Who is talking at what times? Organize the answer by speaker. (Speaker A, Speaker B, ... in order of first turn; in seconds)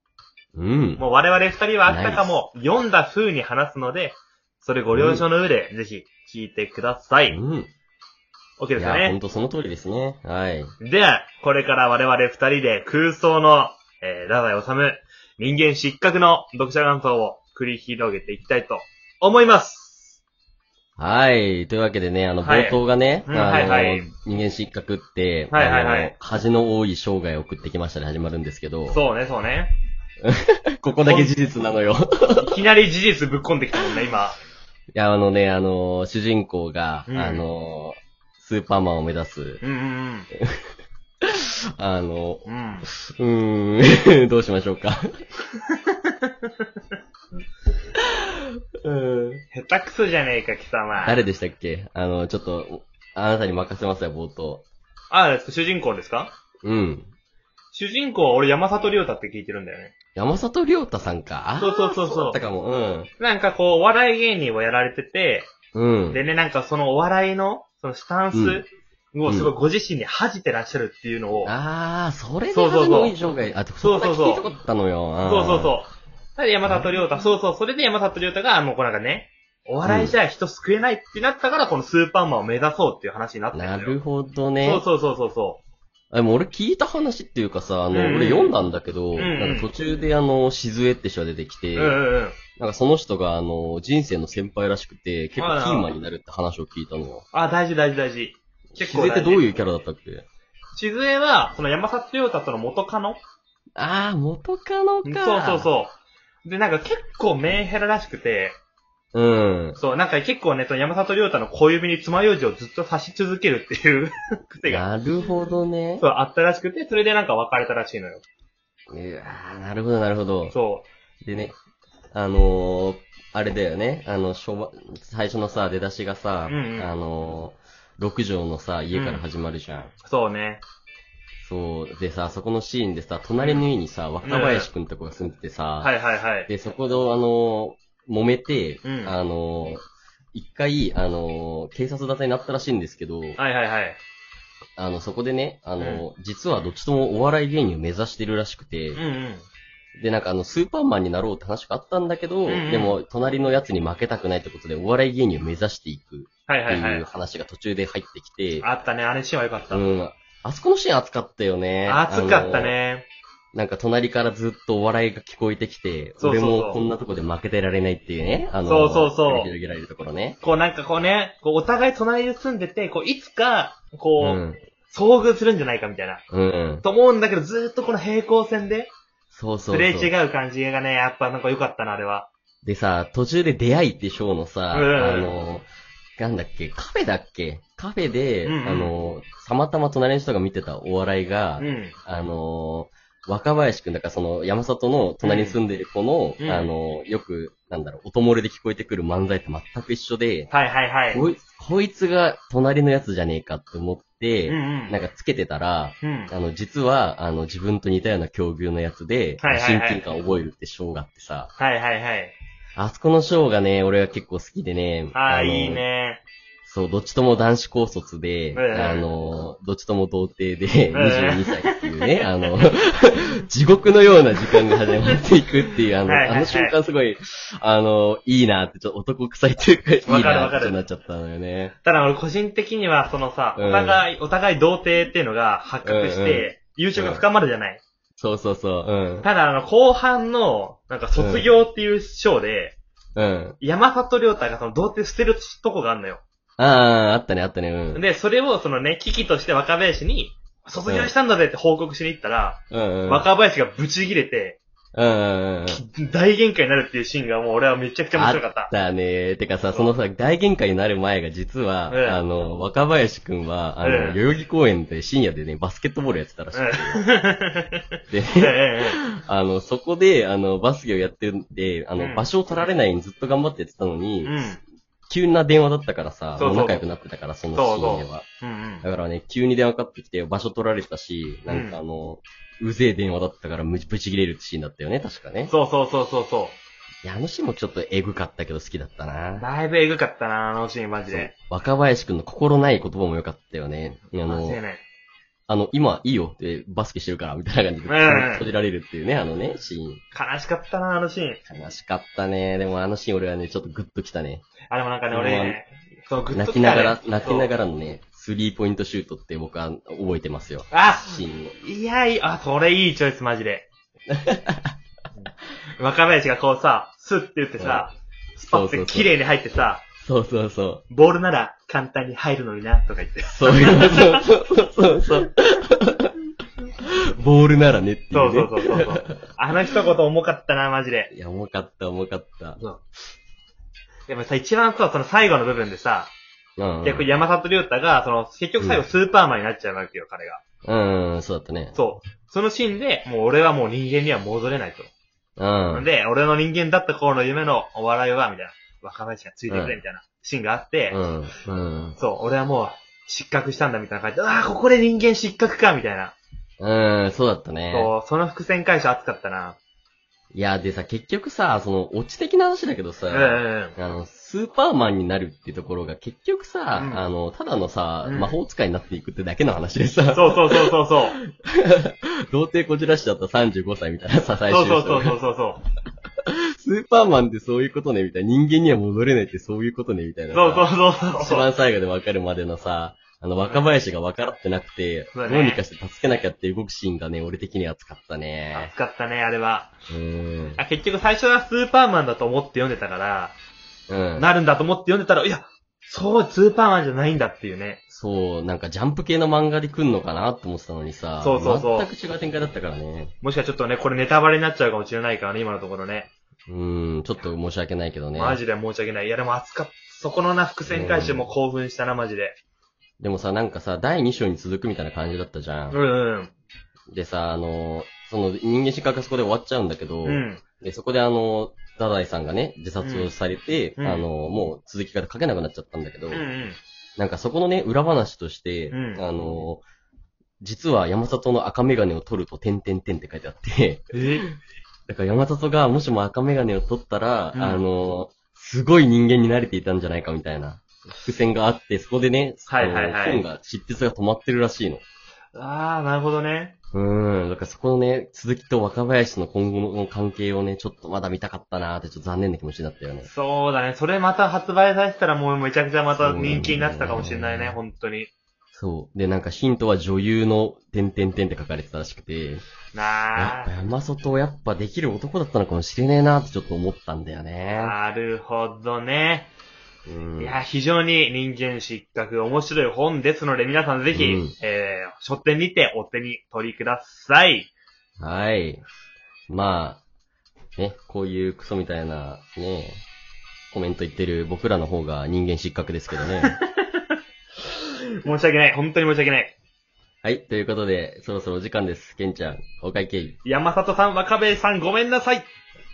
Speaker A: 0.6-1.0, 1.9-2.4, 4.9-5.2, 7.3-7.7, 8.8-10.7, 21.0-29.0, 30.2-32.6, 34.9-39.6, 40.4-40.6, 41.2-45.1, 48.0-49.4, 51.0-54.6, 56.6-57.1, 60.2-63.1, 65.7-66.2, 68.3-68.6, 69.3-69.5, 71.5-75.8, 76.7-76.9, 79.8-80.2, 83.5-84.8, 86.1-92.0, 92.6-97.2, 98.8-100.2, 103.8-105.7, 109.1-109.8, 114.7-116.0, 118.9-120.5, 121.2-121.5, 122.1-129.9, 131.4-135.9, 136.5-143.4, 144.8-149.0, 150.0-158.7, 159.7-162.8, 163.5-170.4, 174.2-174.6, 176.3-176.8, 179.3-180.1, 182.6-200.5, 201.1-211.5, 212.8-215.8, 216.7-231.7, 233.6-234.0, 235.8-237.2, 238.2-239.3, 241.2-241.5, 243.2-243.6, 246.6-248.0, 250.9-251.1, 252.7-253.3, 254.9-255.8, 258.1-267.0, 268.1-274.4, 275.1-278.2, 278.8-285.5, 287.0-289.4, 291.1-294.6, 295.5-300.0, 301.5-304.5, 305.1-305.6, 306.3-311.6, 314.1-314.7, 317.6-317.9, 318.4-319.1, 320.0-320.8, 323.3-326.1, 326.9-329.2, 331.1-332.6, 336.6-337.1, 338.6-338.9, 340.6-341.8, 345.4-345.9, 349.5-349.8, 350.9-352.0, 356.6-357.9, 360.3-375.1, 376.3-388.7, 389.9-390.6, 393.9-394.3, 397.9-403.1, 406.5-408.4, 410.7-411.3, 413.0-415.8, 416.9-426.2, 427.0-429.6, 430.4-434.0, 434.9-444.8, 446.7-453.1, 455.9-457.6, 458.6-462.4, 463.1-467.8, 469.9-470.4, 473.9-474.3, 478.0-478.6, 479.3-479.8, 480.6-482.8, 483.5-486.4, 490.0-493.2
Speaker B: 1.0-7.4, 8.6-9.2, 10.8-20.2, 22.4-24.1, 25.5-26.1, 28.9-29.8, 31.0-31.3, 32.4-34.4, 37.1-37.5, 39.6-40.3, 42.5-42.9, 45.7-46.6, 49.5-51.2, 55.1-56.3, 57.7-59.9, 61.6-62.4, 63.2-65.5, 66.1-71.5, 72.5-73.2, 73.8-74.5, 75.2-84.0, 84.6-85.6, 87.9-88.5, 89.2-89.7, 91.8-92.4, 95.4-95.9, 97.3-99.5, 100.8-103.2, 105.0-108.6, 109.8-114.8, 116.0-118.2, 120.5-120.9, 126.5-126.9, 128.9-129.2, 130.0-130.6, 134.2-134.7, 135.8-136.5, 138.8-139.1, 143.4-144.0, 145.8-146.1, 148.9-149.5, 152.5-153.0, 156.5-157.1, 158.6-159.8, 161.9-163.1, 166.2-166.8, 168.7-169.5, 170.4-176.2, 176.8-178.9, 179.7-182.3, 184.7-185.3, 188.4-189.0, 191.6-191.9, 195.2-195.6, 196.4-196.7, 200.5-201.2, 204.5-205.0, 206.0-206.3, 209.4-210.0, 211.6-212.3, 215.1-216.2, 218.5-219.1, 220.9-222.7, 224.5-224.9, 226.1-226.8, 230.1-230.8, 231.8-237.8, 239.2-242.8, 243.6-246.2, 247.9-254.6, 255.7-258.7, 261.9-262.2, 263.8-264.2, 266.5-267.8, 268.4-269.0, 272.0-272.3, 274.2-274.6, 276.4-276.9, 277.5-278.9, 281.5-281.8, 285.5-286.6, 289.4-291.3, 294.3-294.8, 297.9-298.5, 300.1-301.4, 304.7-307.5, 310.7-313.7, 315.2-319.8, 320.9-324.2, 328.1-331.1, 334.1-336.1, 336.8-340.4, 341.7-344.9, 345.7-351.0, 352.0-356.1, 357.7-359.6, 363.1-363.8, 366.7-367.1, 368.0-368.4, 370.1-371.2, 374.5-375.6, 380.3-381.5, 385.1-385.6, 388.5-389.7, 390.6-393.4, 394.2-397.8, 401.2-401.9, 403.2-406.1, 408.1-412.4, 415.7-416.3, 420.1-420.4, 422.8-423.1, 423.8-424.1, 426.1-426.6, 428.7-429.1, 433.9-434.3, 437.3-437.6, 442.5-443.2, 445.3-446.5, 453.0-458.1, 462.7-463.5, 467.6-469.3, 470.2-477.5, 486.2-489.3, 493.2-495.3